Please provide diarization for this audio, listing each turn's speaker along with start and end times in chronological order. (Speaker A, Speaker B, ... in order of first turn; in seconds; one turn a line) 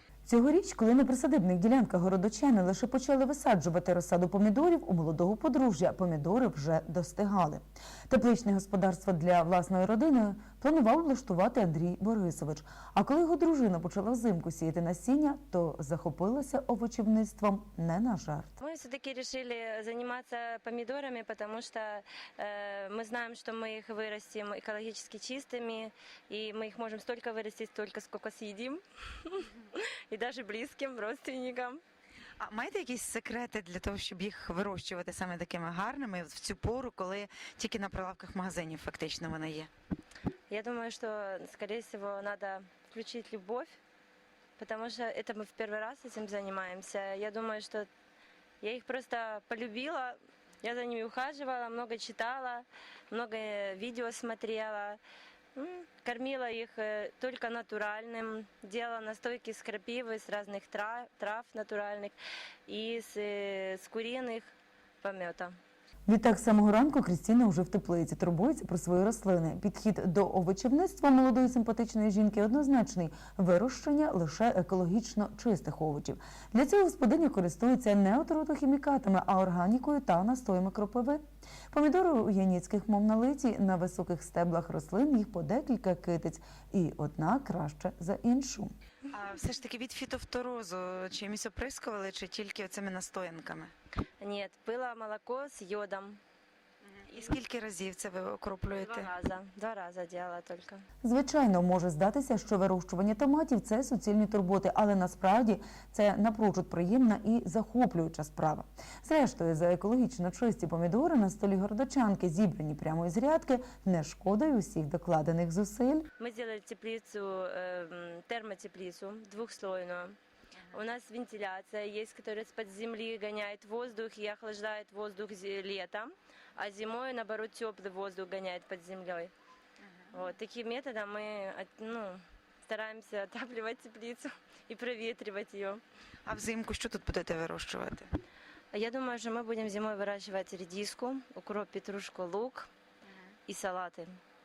Speaker A: 0.2-18.5
Speaker B: 18.6-29.4
Speaker B: 30.1-31.8
Speaker C: 32.4-39.7
Speaker A: 32.7-33.1
Speaker A: 33.8-34.2
Speaker A: 34.9-35.3
Speaker A: 37.5-37.8
Speaker B: 40.5-43.8
Speaker B: 44.6-47.9
Speaker B: 48.6-55.0
Speaker B: 55.5-62.1
Speaker B: 62.7-64.5
Speaker B: 65.0-65.5
Speaker A: 66.1-90.7
Speaker C: 89.2-93.7
Speaker A: 91.4-92.5
Speaker B: 94.2-96.2
Speaker C: 97.3-99.1
Speaker A: 97.4-98.0
Speaker B: 98.8-100.8
Speaker A: 101.0-116.0
Speaker B: 116.2-120.2
Speaker B: 120.7-129.3
Speaker B: 130.1-135.8
Speaker C: 136.3-138.0
Speaker B: 138.7-142.7
Speaker B: 143.5-144.1